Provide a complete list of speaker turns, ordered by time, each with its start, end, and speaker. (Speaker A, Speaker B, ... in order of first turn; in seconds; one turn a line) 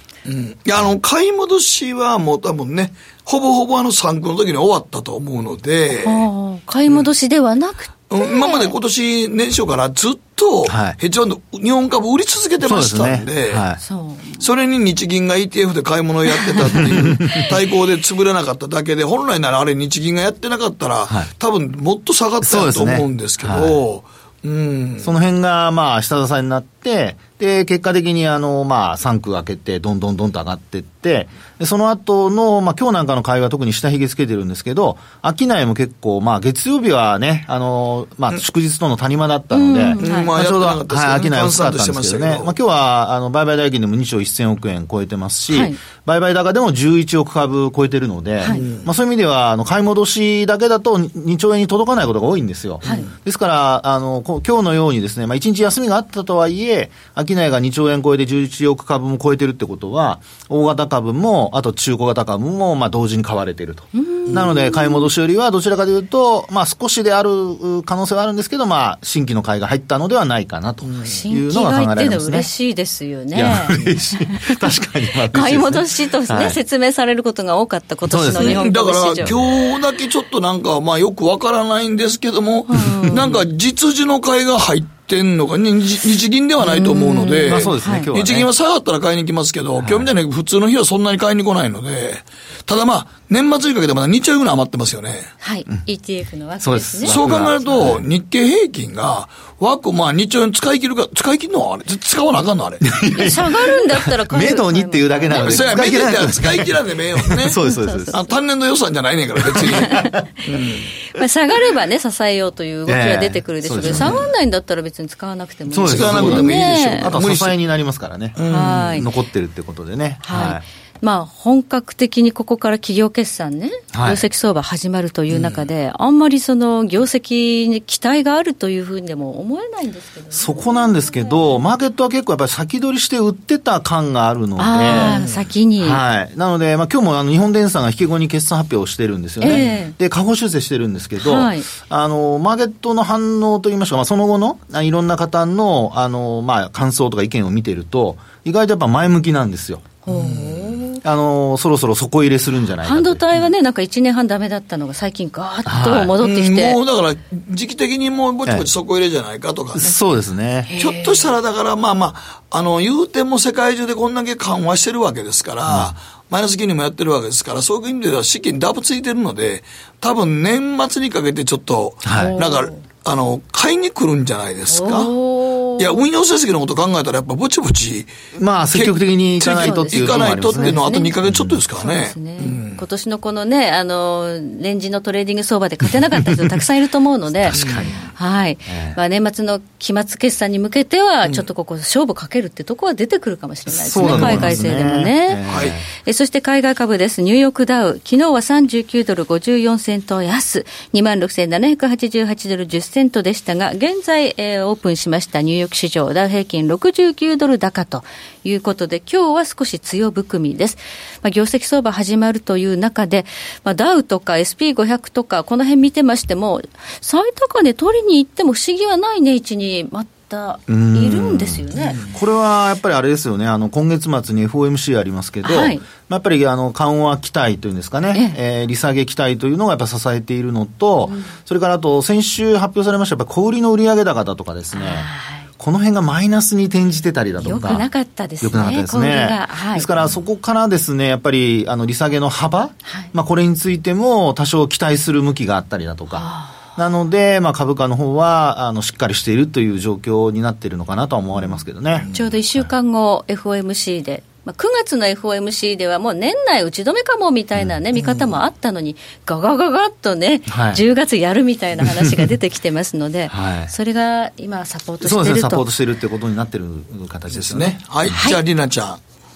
Speaker A: 0.2-6.2
Speaker B: 6.0-8.7
Speaker A: 8.1-13.6
Speaker C: 10.7-11.0
Speaker C: 12.6-13.8
Speaker B: 13.8-14.4
Speaker A: 14.4-25.1
Speaker B: 16.3-17.4
Speaker C: 16.9-17.3
Speaker C: 22.4-23.8
Speaker C: 25.0-72.5
Speaker B: 39.5-40.3
Speaker A: 40.0-42.5
Speaker B: 45.5-45.8
Speaker A: 48.5-48.9
Speaker A: 52.8-53.1
Speaker B: 63.9-65.0
Speaker A: 70.8-71.2
Speaker B: 71.0-73.8
Speaker C: 73.3-76.6
Speaker B: 75.2-79.3
Speaker C: 78.0-79.5
Speaker A: 78.3-95.3
Speaker B: 82.7-83.2
Speaker C: 82.9-83.2
Speaker B: 86.6-88.1
Speaker C: 87.5-88.5
Speaker C: 89.8-90.1
Speaker B: 95.4-97.5
Speaker C: 96.6-98.0
Speaker A: 97.0-102.9
Speaker C: 102.8-108.1
Speaker B: 103.1-105.8
Speaker A: 105.3-107.6
Speaker B: 107.7-108.3
Speaker A: 108.1-110.9
Speaker C: 109.5-110.2
Speaker B: 111.0-117.1
Speaker C: 112.9-114.3
Speaker A: 113.8-114.3
Speaker C: 115.7-120.6
Speaker A: 115.9-117.5
Speaker A: 118.3-119.0
Speaker B: 118.5-119.1
Speaker B: 120.2-130.6
Speaker C: 123.9-124.2
Speaker A: 125.3-125.6
Speaker C: 130.3-135.2
Speaker B: 134.6-136.0
Speaker A: 134.9-135.5
Speaker C: 135.8-153.2
Speaker B: 139.4-139.9
Speaker A: 139.4-139.7
Speaker B: 141.2-141.7
Speaker B: 150.1-151.0
Speaker A: 150.1-150.7
Speaker B: 152.8-156.8
Speaker C: 155.7-156.1
Speaker A: 156.2-159.9
Speaker C: 159.7-160.7
Speaker B: 160.7-161.3
Speaker A: 160.8-175.1
Speaker C: 165.7-165.9
Speaker C: 172.0-172.4
Speaker B: 172.1-172.8
Speaker B: 174.7-176.0
Speaker A: 175.8-178.1
Speaker C: 178.3-181.6
Speaker A: 178.7-182.8
Speaker B: 179.4-181.1
Speaker B: 181.8-187.6
Speaker C: 187.4-188.1
Speaker A: 187.5-188.0
Speaker B: 188.2-195.4
Speaker C: 188.7-189.0
Speaker C: 193.8-195.9
Speaker A: 193.9-194.6
Speaker A: 195.5-195.8
Speaker B: 196.0-222.0
Speaker C: 220.7-237.9
Speaker B: 225.4-225.8
Speaker B: 231.0-231.3
Speaker B: 234.7-235.4
Speaker B: 237.4-239.9
Speaker C: 238.4-252.7
Speaker B: 246.1-246.6
Speaker A: 252.0-252.3
Speaker B: 252.1-265.7
Speaker C: 260.5-260.8
Speaker C: 261.8-262.1
Speaker C: 263.3-263.7
Speaker C: 265.0-268.2
Speaker A: 267.3-269.0